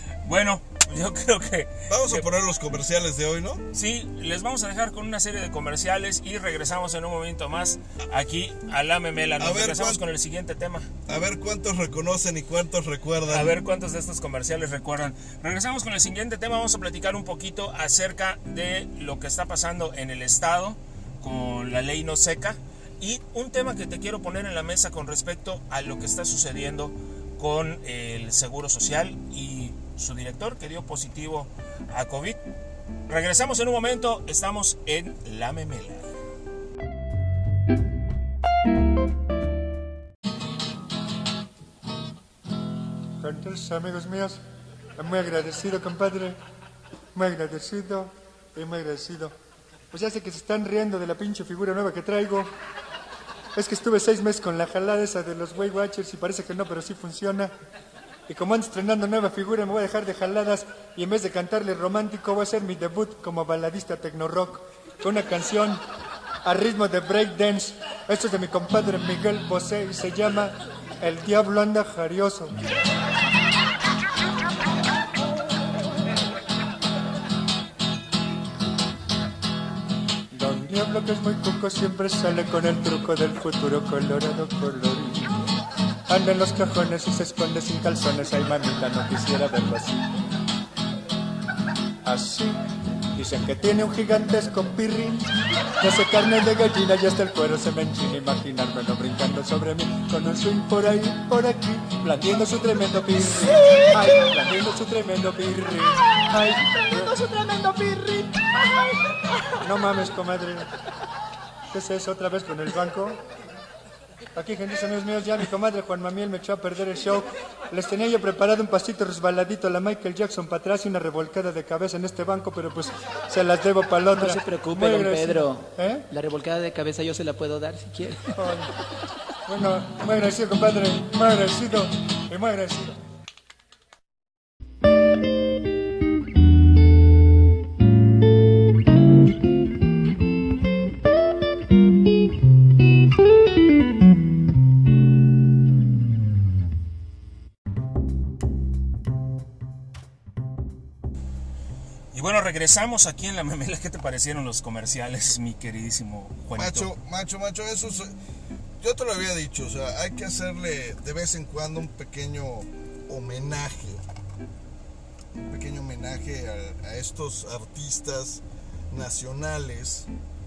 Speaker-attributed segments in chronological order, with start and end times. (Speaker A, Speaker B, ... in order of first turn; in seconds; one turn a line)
Speaker A: 0.2-2.2
Speaker B: 1.9-3.6
Speaker A: 3.7-10.9
Speaker B: 9.4-10.0
Speaker B: 11.1-13.6
Speaker A: 13.2-32.4
Speaker A: 33.1-36.1
Speaker C: 43.2-44.4
Speaker C: 45.0-46.4
Speaker C: 47.1-49.3
Speaker C: 49.9-52.5
Speaker C: 53.5-57.5
Speaker C: 58.3-65.8
Speaker C: 66.4-72.6
Speaker C: 80.3-85.5
Speaker C: 86.1-90.2
Speaker C: 92.0-92.6
Speaker C: 93.1-110.7
Speaker B: 103.6-104.1
Speaker C: 111.7-113.2
Speaker C: 114.3-126.1
Speaker D: 124.1-128.3
Speaker C: 128.3-128.7
Speaker C: 129.4-133.0
Speaker A: 152.1-156.9
Speaker B: 156.6-158.1
Speaker B: 158.8-164.0
Speaker B: 165.3-170.1